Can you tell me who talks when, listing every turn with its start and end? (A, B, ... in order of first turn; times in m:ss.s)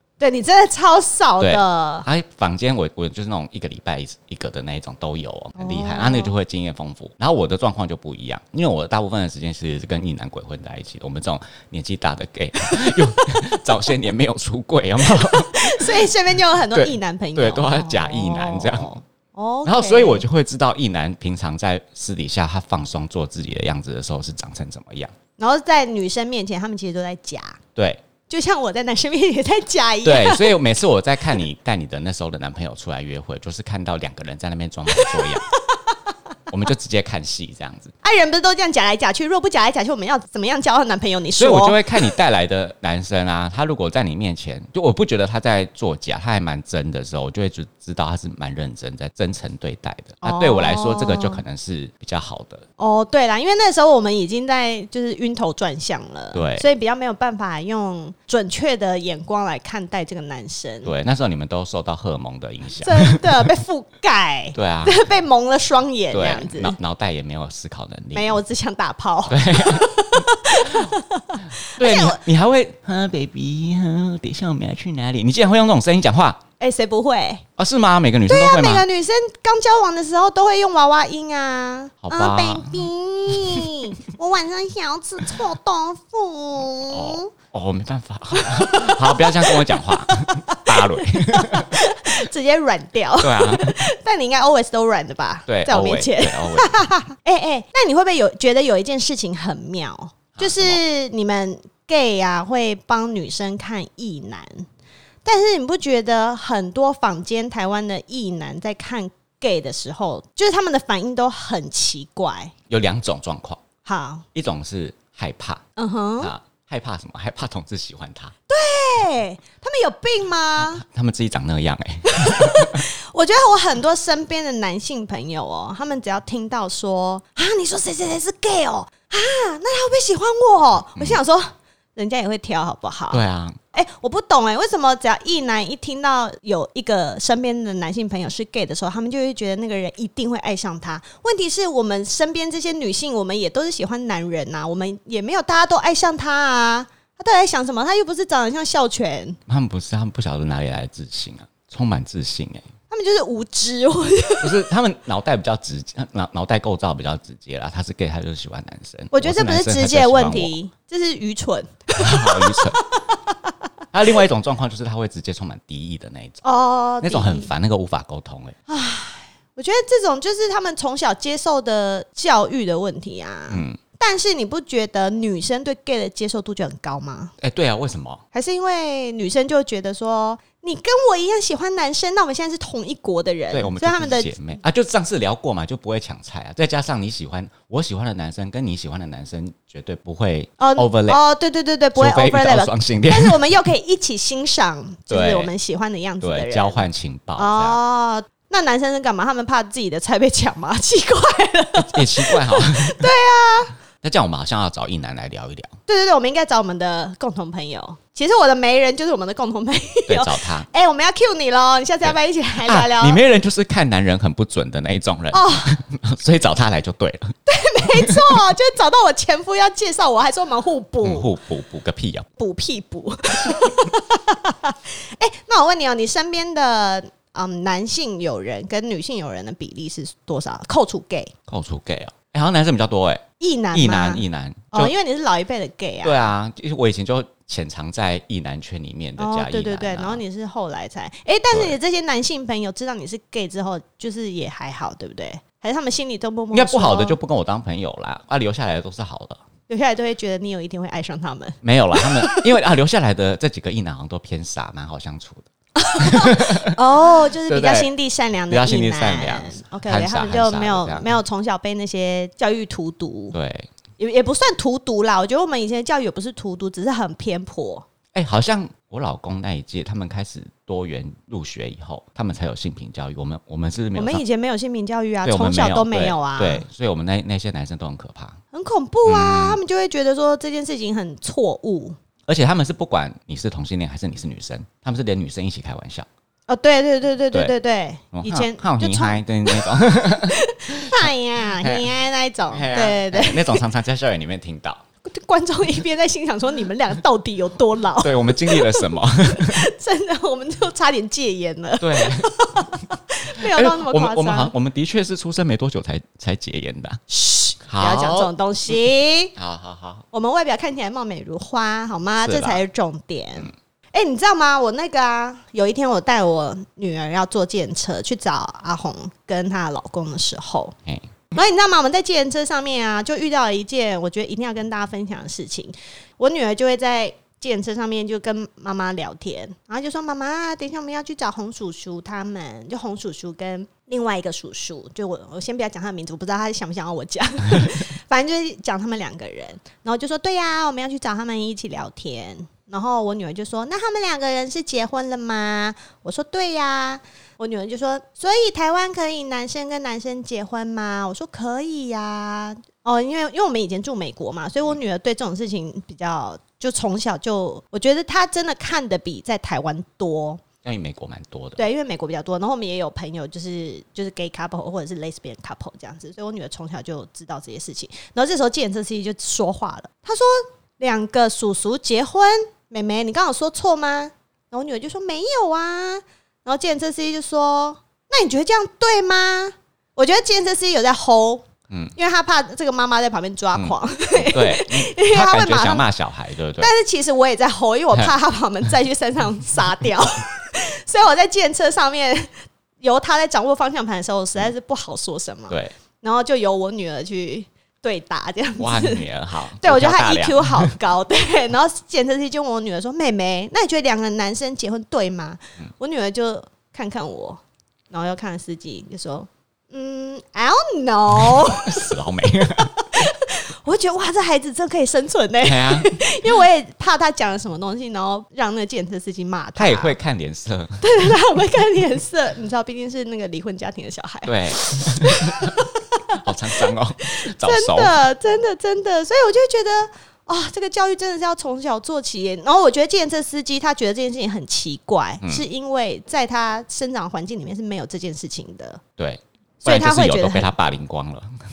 0:00.2-0:02.1 A
0:01.4-0:16.1 B
0:05.6-0:06.3 A
0:12.6-0:13.6 A
0:15.1-0:20.2 A
0:16.7-0:18.9 B
0:19.6-0:25.1 B
0:25.4-0:27.6 A
0:27.8-0:28.0 B
0:28.3-0:30.6 A
0:30.0-0:35.5 B
0:35.0-0:35.9 A
0:36.5-0:37.9 B
0:38.0-0:41.8 A
0:41.4-0:52.6 B
0:50.2-0:51.4 A
0:52.8-1:00.9 A
0:56.3-0:56.7 B
1:00.8-1:03.5 B
1:02.8-1:06.8 A
1:04.5-1:05.0 B
1:06.1-1:08.4 B
1:08.1-1:12.2 A
1:09.3-1:10.9 B
1:11.6-1:16.4 B
1:16.6-1:17.4 A
1:17.6-1:18.8 B
1:18.3-1:27.3 A
1:22.0-1:23.8 B
1:26.9-1:31.7 B
1:28.3-1:44.6 A
1:33.2-1:33.8 B
1:35.5-1:36.8 B
1:40.3-1:40.8 B
1:45.2-1:52.5 A
1:52.7-1:53.6 B
1:53.8-1:54.2 A
1:54.3-1:55.6 B
1:55.8-1:56.3 A
1:56.2-1:58.3 B
1:58.5-2:00.8 A
2:00.6-2:02.8 B
2:02.0-2:29.4 A
2:13.1-2:13.6 B
2:29.5-2:32.7 B
2:32.9-2:34.6 A
2:34.4-2:40.5 B
2:39.1-2:43.5 A
2:42.0-2:42.8 B
2:43.9-2:46.4 B
2:46.4-2:47.5 A
2:47.0-2:48.6 B
2:48.7-2:57.3 A
2:53.5-2:53.8 B
2:57.4-2:58.2 B
2:58.3-3:04.4 A
3:03.5-3:11.2 B
3:10.6-3:16.8 A
3:12.0-3:13.5 B
3:15.1-3:15.5 B
3:16.2-3:17.8 B
3:17.4-3:23.7 A
3:21.8-3:23.1 B
3:24.0-3:25.7 B
3:25.9-3:33.2 A
3:30.1-3:30.7 B
3:32.0-3:38.4 B
3:35.3-3:35.8 A
3:37.4-3:41.3 A
3:41.0-3:42.3 B
3:42.4-3:51.3 A
3:51.5-3:54.9 B
3:53.4-3:56.3 A
3:56.0-4:00.2 B
3:59.2-4:07.2 A
4:01.5-4:01.8 B
4:06.5-4:09.4 B
4:09.7-4:12.5 A
4:11.6-4:17.9 B
4:15.8-4:23.4 A
4:18.5-4:21.1 B
4:23.3-4:23.7 B
4:24.0-4:27.8 A
4:28.1-4:34.2 B
4:33.9-4:36.6 A
4:35.2-4:38.4 B
4:38.5-4:42.0 A
4:39.0-4:39.6 B
4:42.3-4:46.1 B
4:46.5-4:53.6 A
4:48.1-4:51.9 B
4:52.5-4:54.8 B
4:55.0-5:04.5 A
4:58.0-4:59.7 B
5:01.8-5:02.3 B
5:03.4-5:07.0 B
5:07.1-5:09.3 A
5:07.7-5:08.3 B
5:09.4-5:10.0 B
5:10.1-5:20.7 A
5:12.2-5:12.6 B
5:20.8-5:21.1 B
5:21.3-6:00.4 A
6:00.6-6:01.6 B
6:01.6-6:25.9 A
6:21.7-6:21.9 B
6:23.5-6:26.7 B
6:26.6-6:52.0 A
6:38.6-6:40.7 B
6:51.2-6:52.7 B
6:52.5-7:00.0 A
6:55.4-6:56.3 B
6:59.6-7:00.9 B
7:00.8-7:18.8 A
7:04.2-7:05.5 B
7:06.2-7:08.0 B
7:19.0-7:21.3 B
7:19.6-7:20.5 A